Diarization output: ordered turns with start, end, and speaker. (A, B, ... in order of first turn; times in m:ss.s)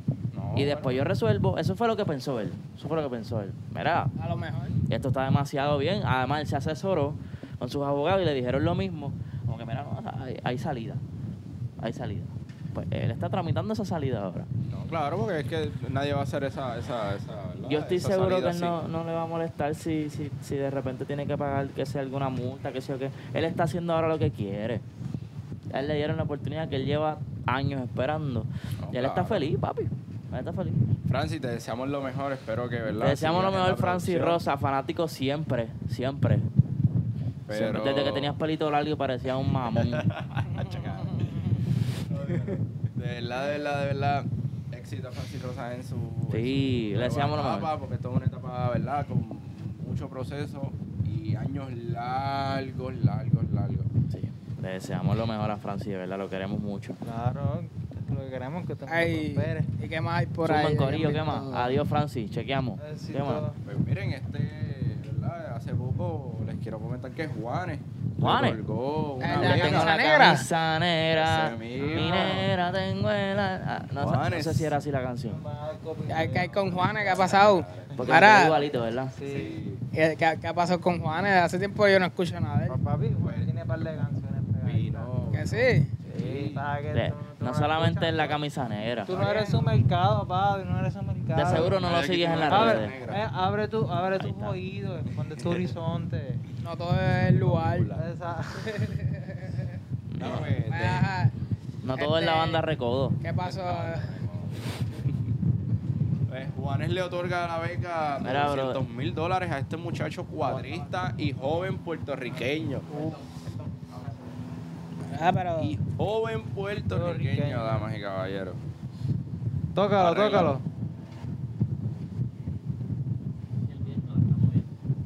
0:00.3-0:01.0 A
0:00.5-0:04.1 B
0:04.2-0:04.8 C
0:04.9-0:11.0 B
0:11.8-0:14.5 B
0:14.7-0:18.8 A
0:17.7-0:24.8 B
0:25.7-0:30.8 B
0:28.8-0:29.4 A
0:31.1-0:34.4 A
0:33.0-0:36.5 B
0:37.5-0:38.3 A
0:37.5-0:40.1 B
0:39.7-0:53.9 A
0:40.6-0:41.4 C
0:46.3-0:47.7 B
0:54.1-0:57.0 B
0:57.0-0:59.7 D
0:58.9-1:01.7 C
1:00.4-1:03.4 B
1:02.8-1:03.6 D
1:03.6-1:09.9 A
1:08.2-1:08.6 B
1:09.2-1:10.4 C
1:09.3-1:15.4 B
1:11.1-1:12.5 A
1:11.8-1:12.3 D
1:14.0-1:14.7 A
1:15.3-1:17.2 D
1:16.1-1:18.6 C
1:16.6-1:18.6 A
1:18.0-1:19.1 B
1:19.1-1:19.6 D
1:19.2-1:19.8 A
1:19.9-1:22.8 C
1:22.7-1:25.1 D
1:23.2-1:23.5 A
1:24.6-1:26.6 A
1:25.3-1:25.9 C
1:26.0-1:28.4 D
1:26.9-1:29.1 B
1:29.0-1:31.8 D
1:29.1-1:29.5 A
1:29.2-1:29.6 C
1:31.4-1:32.9 B
1:31.4-1:33.2 A
1:32.5-1:36.4 D
1:34.2-1:34.6 B
1:35.4-1:35.7 A
1:36.6-1:37.9 C
1:37.0-1:38.1 A
1:37.9-1:38.7 D
1:38.6-1:39.7 C
1:40.1-1:40.5 B
1:40.2-1:41.1 A
1:40.7-1:41.3 C
1:41.8-1:43.2 B
1:42.0-1:42.6 C
1:43.2-1:44.1 C
1:43.4-1:45.2 A
1:46.3-1:53.2 A
1:48.2-1:48.8 B
1:50.4-1:50.9 D
1:52.9-1:53.2 D
1:55.0-1:55.8 C
1:55.6-1:58.6 A
1:56.9-1:57.8 D
1:59.7-2:00.6 D
2:00.0-2:00.6 A
2:03.6-2:04.7 B